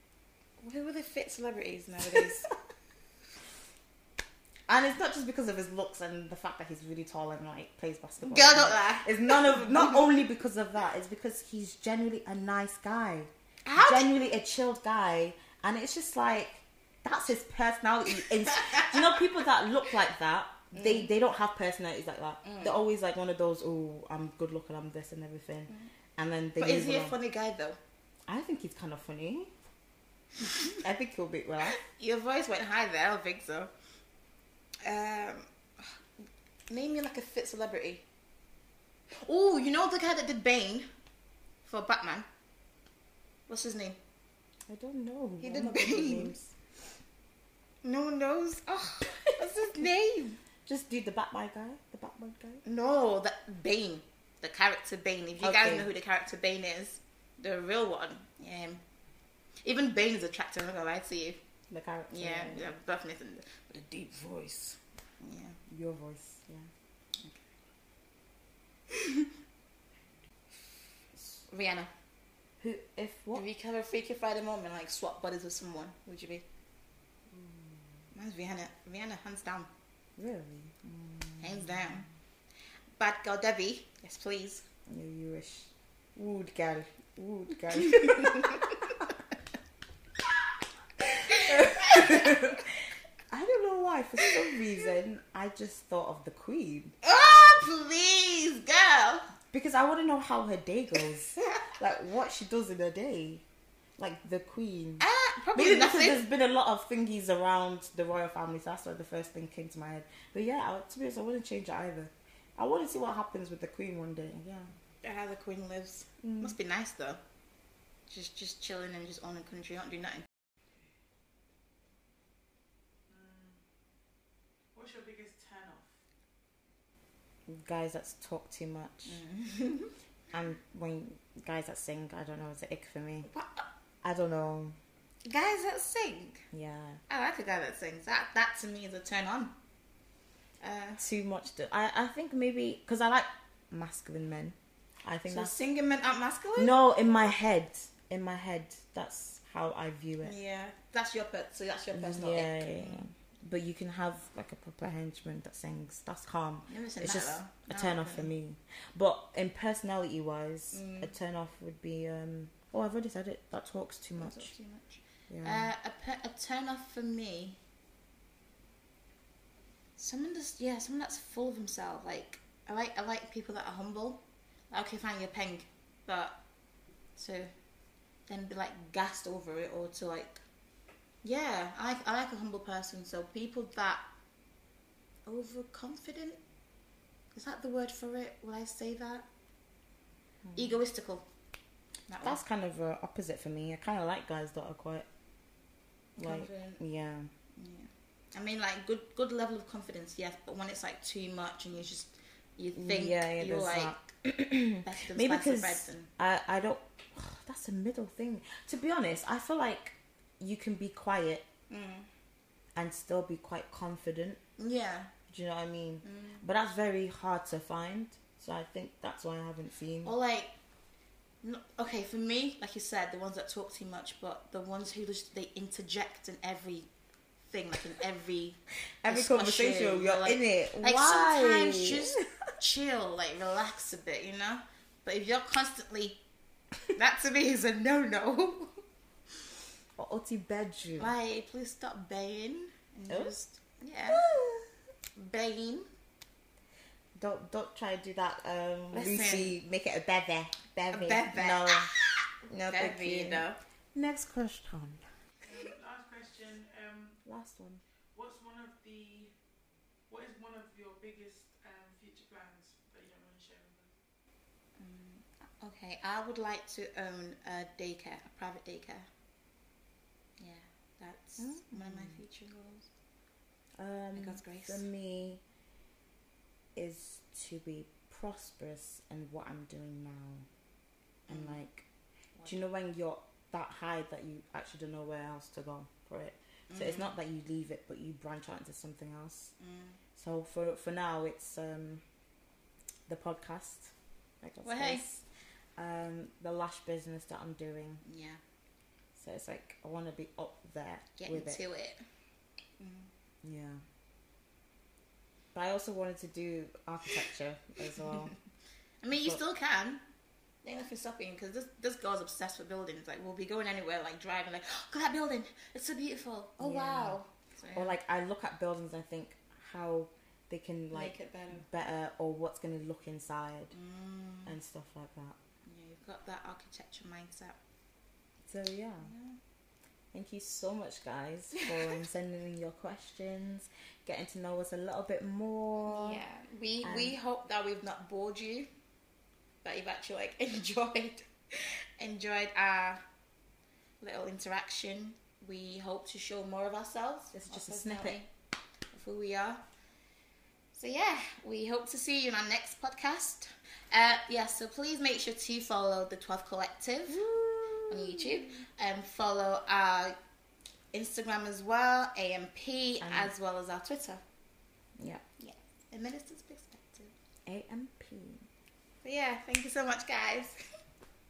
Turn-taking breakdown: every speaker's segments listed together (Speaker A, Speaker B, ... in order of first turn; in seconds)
Speaker A: 0.6-2.5, 8.2-10.1, 13.6-14.1, 18.2-19.2, 20.7-21.1, 22.4-22.8, 26.6-27.8, 31.8-33.7, 34.8-36.0, 36.7-38.0, 39.1-40.9, 41.6-42.3, 43.5-44.0, 45.4-46.3, 47.8-50.4, 52.6-58.8, 59.6-61.4, 62.1-65.6, 67.2-67.5, 68.9-69.3, 71.5-71.9, 73.3-76.5, 78.1-79.7, 81.4-82.1, 83.0-84.7, 87.7-88.9, 91.3-92.6, 94.2-94.6, 97.0-99.3, 105.0-106.2, 115.0-117.2, 118.1-120.3, 129.1-129.9, 133.3-133.7, 135.2-136.5, 137.1-139.5, 140.6-141.0, 145.3-146.7, 150.2-153.1, 156.7-158.3, 160.7-161.1, 164.2-167.6, 170.0-176.4, 177.2-177.5, 178.3-180.4, 181.2-184.0, 185.3-186.4, 187.3-189.3, 190.6-191.3, 192.1-192.4, 196.2-196.8, 197.5-204.0, 204.8-206.1, 211.7-212.1, 214.6-215.1, 216.0-216.4, 220.0-220.5, 221.4-226.9, 227.4-236.2, 236.9-238.8, 241.0-244.2, 245.1-245.9, 248.9-249.6, 250.9-253.6, 264.8-269.1, 270.4-272.9, 274.1-274.9, 281.3-281.6, 286.7-287.1, 289.6-290.0, 294.6-295.1, 298.0-298.4, 301.2-302.0, 302.8-303.1, 308.0-308.3, 309.0-310.0, 310.6-318.0, 320.9-321.6, 323.7-324.5, 325.6-327.6, 329.0-329.4, 335.9-338.7, 339.6-343.0, 344.0-348.3, 348.9-349.6, 350.7-357.2, 357.9-360.1, 360.9-364.2, 365.4-367.1, 369.0-370.6
Speaker B: 4.7-27.2, 28.3-29.5, 30.8-31.8, 44.7-46.5, 50.6-52.6, 55.4-55.9, 61.7-62.7, 65.7-66.7, 72.6-73.5, 77.3-78.1, 80.2-82.0, 84.9-89.1, 91.1-92.7, 93.3-96.9, 99.5-103.5, 104.0-114.7, 116.2-116.5, 127.5-129.2, 130.3-133.3, 134.0-134.8, 136.5-137.0, 141.0-145.6, 146.6-150.4, 151.9-164.5, 165.3-165.7, 192.2-195.1, 196.2-197.3, 202.8-211.5, 212.8-214.4, 215.3-220.1, 229.0-232.3, 240.0-241.1, 244.1-244.7, 247.2-251.9, 252.5-255.0, 257.2-257.8, 271.4-272.2, 273.8-275.4, 276.8-280.5, 281.3-281.9, 282.4-289.5, 290.1-292.0, 293.1-295.2, 295.8-298.0, 299.1-301.6, 303.4-303.8, 305.5-308.3, 309.1-309.4, 316.6-317.2, 317.7-323.8, 324.5-325.4, 328.5-329.1, 330.1-336.2, 336.8-337.1, 347.3-348.2, 357.1-358.6, 363.0-363.3, 365.0-365.2, 367.5-368.5
Speaker C: 123.1-123.6, 124.7-125.9, 255.4-257.2, 258.1-259.3, 260.1-263.9